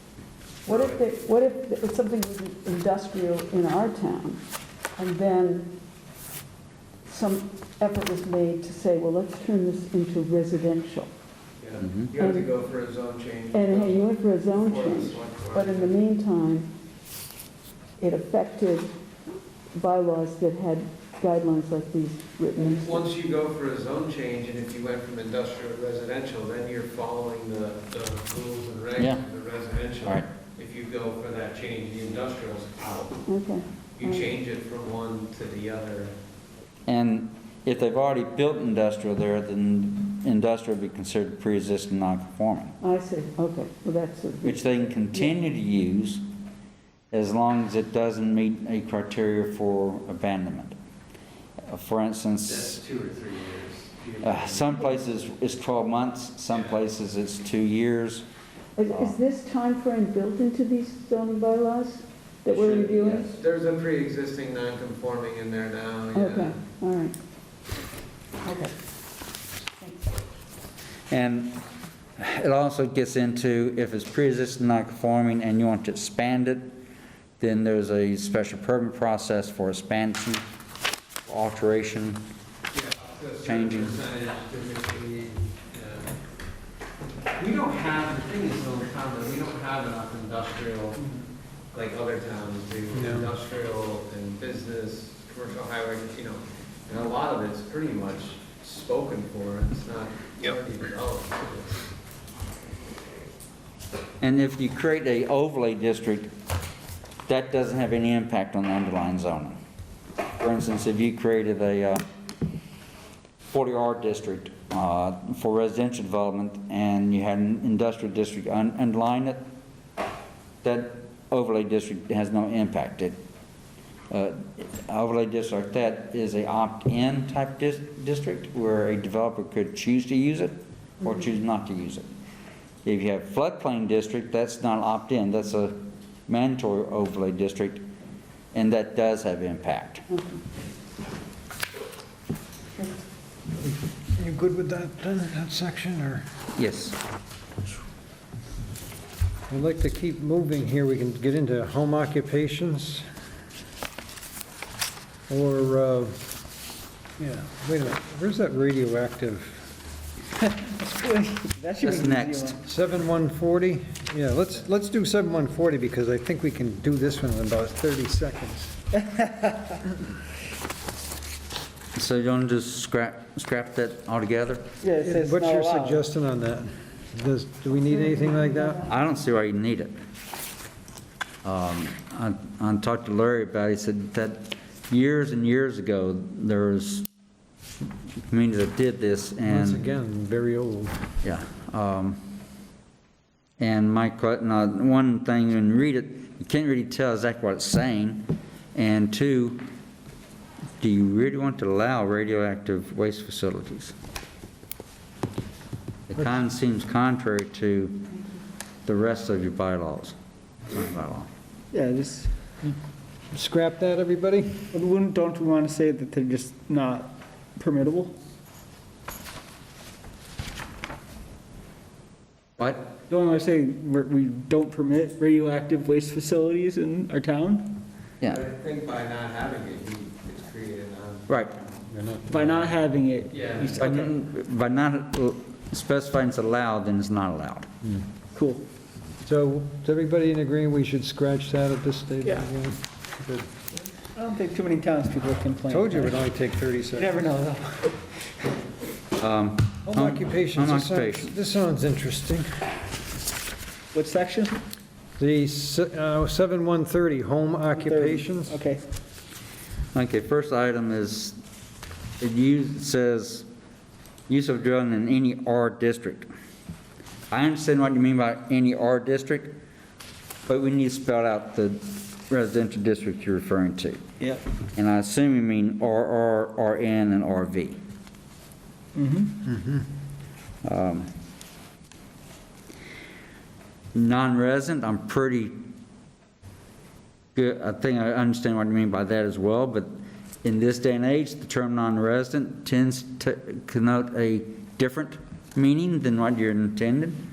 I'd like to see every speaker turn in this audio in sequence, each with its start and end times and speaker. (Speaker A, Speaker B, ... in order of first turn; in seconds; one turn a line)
Speaker A: 0.6-4.4
Speaker B: 0.7-1.0
Speaker A: 5.0-5.7
Speaker A: 7.0-11.1
Speaker B: 11.6-15.9
Speaker A: 12.2-12.5
Speaker A: 13.5-16.7
Speaker A: 18.0-18.9
Speaker A: 19.7-23.1
Speaker B: 22.6-33.2
Speaker C: 29.0-29.2
Speaker A: 33.2-34.2
Speaker B: 34.0-36.1
Speaker C: 36.9-42.7
Speaker A: 42.8-45.3
Speaker C: 44.4-46.2
Speaker C: 47.1-50.8
Speaker C: 51.7-52.8
Speaker B: 52.5-55.0
Speaker C: 54.2-58.2
Speaker B: 56.5-56.7
Speaker A: 58.8-63.3
Speaker C: 58.9-59.1
Speaker C: 62.5-63.3
Speaker B: 63.3-66.6
Speaker A: 66.1-67.1
Speaker A: 68.4-68.7
Speaker A: 69.8-70.2
Speaker C: 71.1-71.6
Speaker C: 72.2-76.7
Speaker C: 77.4-80.4
Speaker C: 81.2-82.2
Speaker B: 82.7-86.1
Speaker C: 83.4-84.0
Speaker B: 87.3-91.0
Speaker B: 91.7-101.9
Speaker D: 92.9-93.3
Speaker C: 104.2-106.3
Speaker C: 107.3-109.5
Speaker C: 110.4-112.0
Speaker C: 113.5-119.4
Speaker C: 120.6-123.2
Speaker C: 124.1-132.1
Speaker C: 132.8-137.8
Speaker C: 138.5-140.1
Speaker A: 140.1-140.4
Speaker D: 144.2-146.2
Speaker C: 146.6-147.0
Speaker D: 149.5-153.1
Speaker D: 155.3-156.2
Speaker D: 157.2-159.6
Speaker E: 160.4-162.5
Speaker C: 161.8-162.6
Speaker D: 162.6-168.8
Speaker E: 169.2-169.5
Speaker C: 171.9-174.7
Speaker E: 174.8-176.0
Speaker D: 175.0-178.9
Speaker A: 178.0-178.8
Speaker C: 178.9-179.9
Speaker C: 181.4-187.1
Speaker C: 188.3-189.8
Speaker D: 189.4-191.0
Speaker C: 191.2-192.2
Speaker C: 193.6-199.6
Speaker C: 200.8-203.9
Speaker C: 206.1-208.1
Speaker C: 208.8-210.2
Speaker C: 210.7-211.3
Speaker E: 211.7-212.3
Speaker D: 213.3-214.7
Speaker E: 214.7-218.1
Speaker C: 222.6-222.8
Speaker E: 223.0-227.7
Speaker B: 228.3-231.3
Speaker C: 231.3-231.5
Speaker D: 231.9-232.8
Speaker E: 232.3-233.8
Speaker B: 233.3-233.8
Speaker C: 233.8-237.7
Speaker E: 238.3-238.6
Speaker D: 239.2-243.5
Speaker E: 244.1-246.2
Speaker D: 245.7-247.2
Speaker E: 246.9-247.9
Speaker C: 249.2-251.3
Speaker D: 249.8-252.6
Speaker E: 253.9-254.6
Speaker D: 255.2-258.6
Speaker E: 257.8-258.8
Speaker C: 259.9-261.4
Speaker C: 262.2-263.5
Speaker C: 264.3-266.3
Speaker C: 267.3-269.5
Speaker C: 270.5-274.0
Speaker C: 274.7-277.8
Speaker E: 278.9-279.3
Speaker C: 280.6-281.1
Speaker C: 283.9-285.6
Speaker C: 287.3-289.9
Speaker C: 290.4-297.2